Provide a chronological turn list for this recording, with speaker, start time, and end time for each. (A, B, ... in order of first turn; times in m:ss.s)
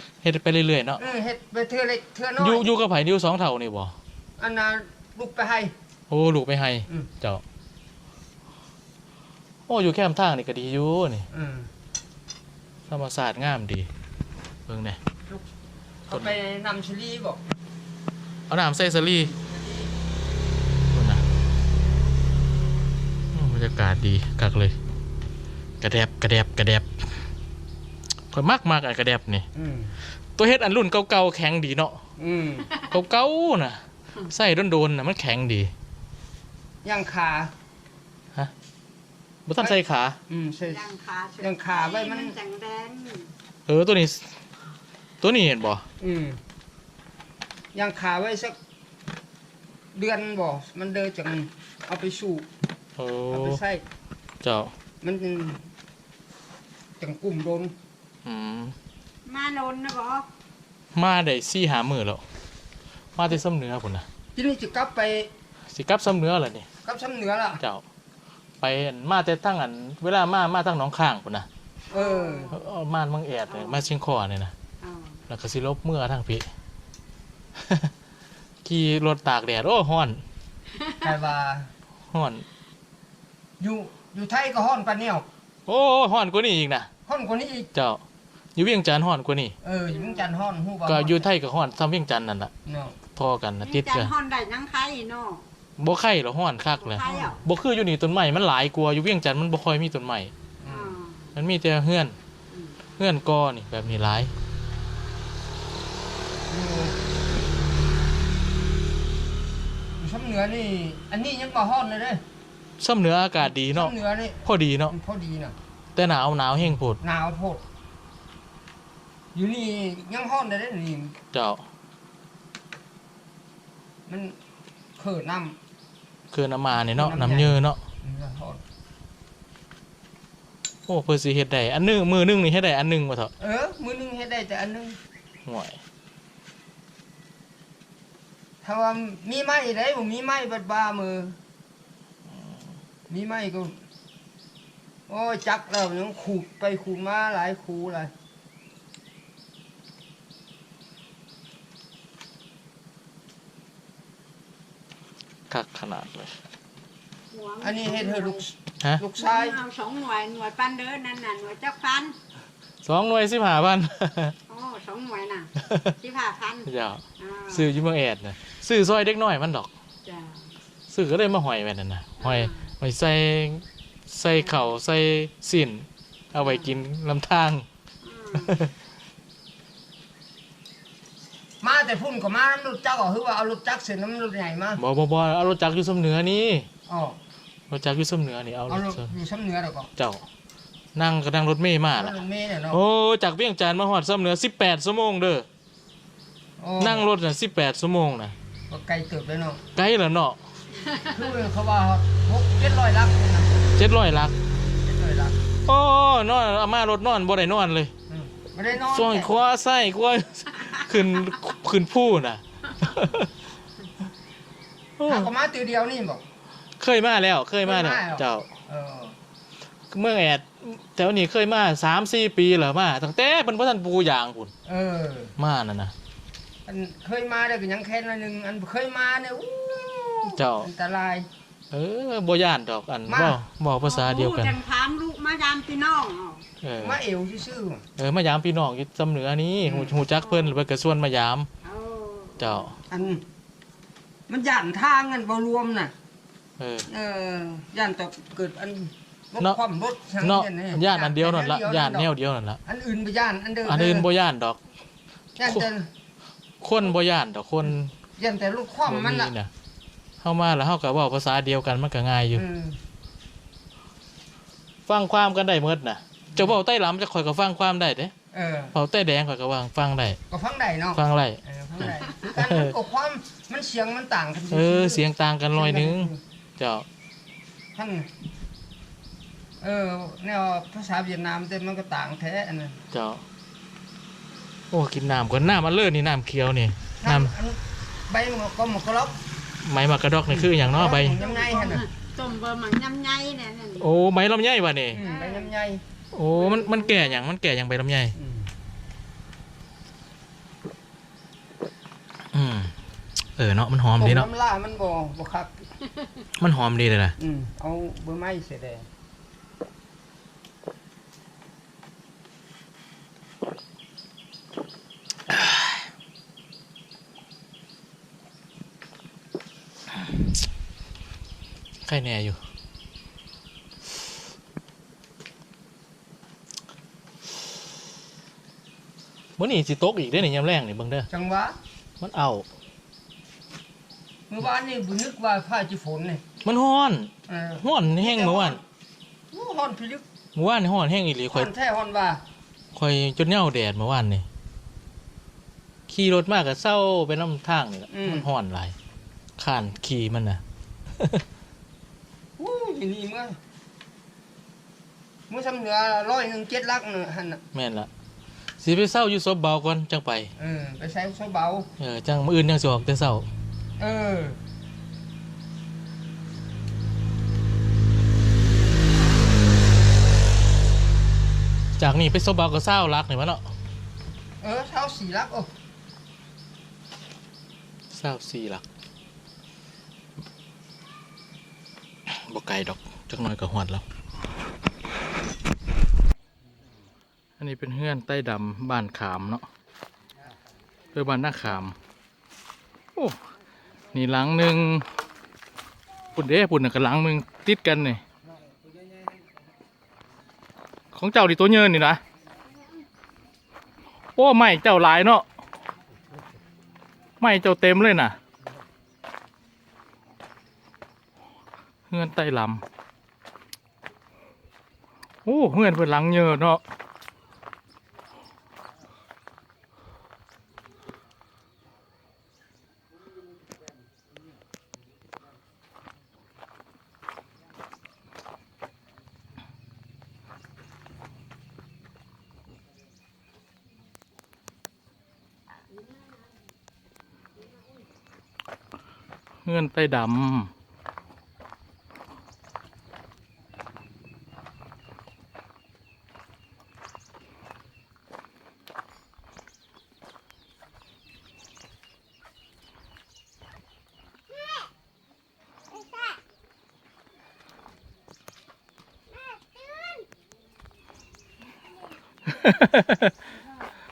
0:00.2-0:01.0 A
0:01.0-0:02.7 B
0:02.4-0:04.0 A
0:04.4-0:05.7 B
0:06.1-0:07.4 A
0:09.7-0:11.3 A
0:11.3-0:11.7 B
0:12.9-0:13.9 A
0:14.7-0:15.0 A
0:16.1-0:17.4 B
0:18.5-0:19.3 A
0:19.3-0:19.9 B
0:20.9-0:21.2 A
0:23.3-0:24.8 A
0:25.8-0:27.1 A
0:28.3-0:29.5 A
0:29.6-0:29.9 B
0:30.4-0:32.0 A
0:32.2-0:32.7 B
0:32.9-0:35.7 A
0:36.8-0:37.5 B
0:39.5-0:40.2 A
0:40.3-0:40.9 B
0:40.6-0:43.3 C
0:41.4-0:42.4 B
0:43.7-0:44.3 A
0:45.2-0:45.9 A
0:46.0-0:46.4 B
0:47.7-0:48.6 B
0:49.9-0:52.5 B
0:53.0-0:53.6 A
0:53.3-0:53.8 B
0:54.4-0:54.7 A
0:55.0-0:55.7 B
0:57.0-0:57.7 B
0:58.2-0:58.8 A
0:59.2-1:00.3 C
1:01.0-1:02.2 A
1:03.2-1:04.1 A
1:04.4-1:05.3 B
1:05.7-1:06.7 A
1:06.8-1:07.6 B
1:08.6-1:11.5 A
1:11.9-1:12.6 B
1:11.9-1:12.6 C
1:12.5-1:14.5 A
1:13.5-1:13.9 C
1:14.8-1:15.2 C
1:15.3-1:16.5 A
1:17.6-1:17.9 A
1:18.6-1:20.2 A
1:20.7-1:21.1 C
1:21.0-1:21.7 B
1:22.1-1:22.4 A
1:23.6-1:25.3 B
1:25.7-1:26.9 A
1:27.1-1:27.7 B
1:27.7-1:28.0 A
1:28.6-1:29.6 A
1:29.6-1:31.2 B
1:29.9-1:30.2 C
1:30.9-1:32.5 A
1:32.7-1:33.0 B
1:33.2-1:34.1 A
1:33.6-1:35.4 C
1:35.8-1:40.3 A
1:36.8-1:37.4 C
1:37.0-1:37.4 B
1:40.6-1:41.0 B
1:40.6-1:41.3 C
1:41.4-1:42.2 A
1:42.5-1:42.8 C
1:43.0-1:44.3 A
1:46.5-1:47.0 B
1:50.0-1:52.2 B
1:52.8-1:53.9 A
1:53.6-1:55.6 B
1:54.4-1:55.0 A
1:56.0-1:57.0 A
1:57.0-1:57.6 B
1:59.3-2:01.2 B
2:01.3-2:01.6 A
2:04.1-2:04.4 B
2:05.0-2:05.6 B
2:06.3-2:07.8 A
2:06.9-2:08.6 B
2:10.9-2:13.3 A
2:13.4-2:15.0 B
2:15.4-2:15.8 A
2:18.6-2:21.4 B
2:23.1-2:23.8 B
2:25.1-2:28.1 B
2:35.5-2:36.4 A
2:37.3-2:38.4 C
2:37.6-2:39.6 B
2:39.2-2:42.2 C
2:42.8-2:44.4 A
2:44.5-2:47.7 C
2:45.6-2:45.9 A
2:46.7-2:49.7 A
2:50.0-2:50.6 C
2:50.9-2:57.6 A
2:52.2-2:52.7 C
2:54.3-2:54.7 C
2:56.4-2:56.7 C
2:58.0-2:58.6 C
2:58.3-2:58.7 A
3:01.6-3:04.8 B
3:04.8-3:06.7 A
3:06.9-3:07.2 B
3:07.7-3:09.1 A
3:08.7-3:09.9 B
3:10.0-3:10.2 A
3:11.0-3:15.5 A
3:12.0-3:12.8 B
3:16.6-3:17.1 B
3:16.8-3:18.4 A
3:18.7-3:19.6 B
3:19.8-3:20.4 A
3:21.0-3:23.6 B
3:23.8-3:24.4 A
3:24.7-3:25.4 B
3:25.7-3:27.9 A
3:28.1-3:29.3 B
3:28.9-3:33.3 A
3:35.0-3:35.3 A
3:35.0-3:36.2 B
3:36.8-3:38.5 A
3:37.6-3:39.2 B
3:39.9-3:44.5 A
3:44.6-3:45.3 B
3:45.4-3:45.9 A
3:46.7-3:51.3 B
3:50.3-3:50.7 A
3:51.7-3:54.6 A
3:53.1-3:53.4 B
3:53.8-3:56.4 C
3:56.6-3:57.0 A
3:56.8-3:57.8 B
3:58.0-4:01.5 A
3:59.7-4:00.0 B
4:01.6-4:02.7 C
4:02.4-4:02.8 A
4:02.9-4:03.2 B
4:04.3-4:05.9 B
4:06.6-4:06.9 A
4:06.9-4:12.1 B
4:10.2-4:12.6 A
4:12.7-4:14.1 B
4:13.6-4:14.6 A
4:15.4-4:15.9 B
4:15.4-4:15.7 A
4:16.6-4:17.9 A
4:18.2-4:19.3 B
4:18.9-4:19.5 A
4:20.2-4:22.4 A
4:22.3-4:22.8 B
4:24.9-4:28.1 A
4:28.3-4:28.8 B
4:28.7-4:30.2 A
4:30.3-4:36.2 B
4:31.0-4:32.7 A
4:34.5-4:36.8 A
4:37.8-4:38.1 B
4:39.6-4:42.8 B
4:42.9-4:43.2 A
4:44.7-4:47.3 A
4:47.0-4:49.2 B
4:49.6-4:51.2 A
4:50.3-4:51.9 B
4:51.0-4:53.8 C
4:53.8-4:55.0 A
4:54.9-4:55.8 B
4:55.0-4:55.5 C
4:56.1-4:58.2 A
4:56.5-4:56.9 C
4:58.2-4:58.5 B
5:02.3-5:02.7 A
5:03.4-5:04.3 A
5:04.0-5:05.7 B
5:06.4-5:07.2 A
5:07.2-5:08.9 B
5:15.3-5:15.8 A
5:21.8-5:22.4 A
5:29.4-5:31.1 A
5:31.1-5:31.6 B
5:32.0-5:32.5 A
5:34.3-5:36.2 B
5:36.4-5:38.6 A
5:37.3-5:38.6 B
5:39.3-5:40.0 B
5:40.4-5:41.5 A
5:41.3-5:42.2 B
5:42.7-5:44.3 A
5:45.9-5:48.8 A
5:47.9-5:48.3 B
5:49.4-5:50.4 A
5:51.0-5:51.2 A
5:52.4-5:53.4 B
5:55.3-5:57.4 B
5:57.5-5:57.9 A
5:58.6-6:00.3 A
6:00.4-6:01.7 B
6:01.8-6:03.3 A
6:03.8-6:04.4 B
6:11.8-6:13.5 A
6:14.4-6:15.5 B
6:17.9-6:18.6 A
6:22.1-6:23.8 A
6:27.4-6:29.5 A
6:30.9-6:31.8 A
6:33.9-6:34.9 A
6:36.2-6:38.0 A
6:40.9-6:42.0 A
6:44.2-6:45.3 A
6:47.2-6:48.2 A
6:51.9-6:52.6 A
6:55.2-6:56.6 A
7:19.4-7:20.5 A
7:42.3-7:43.2 A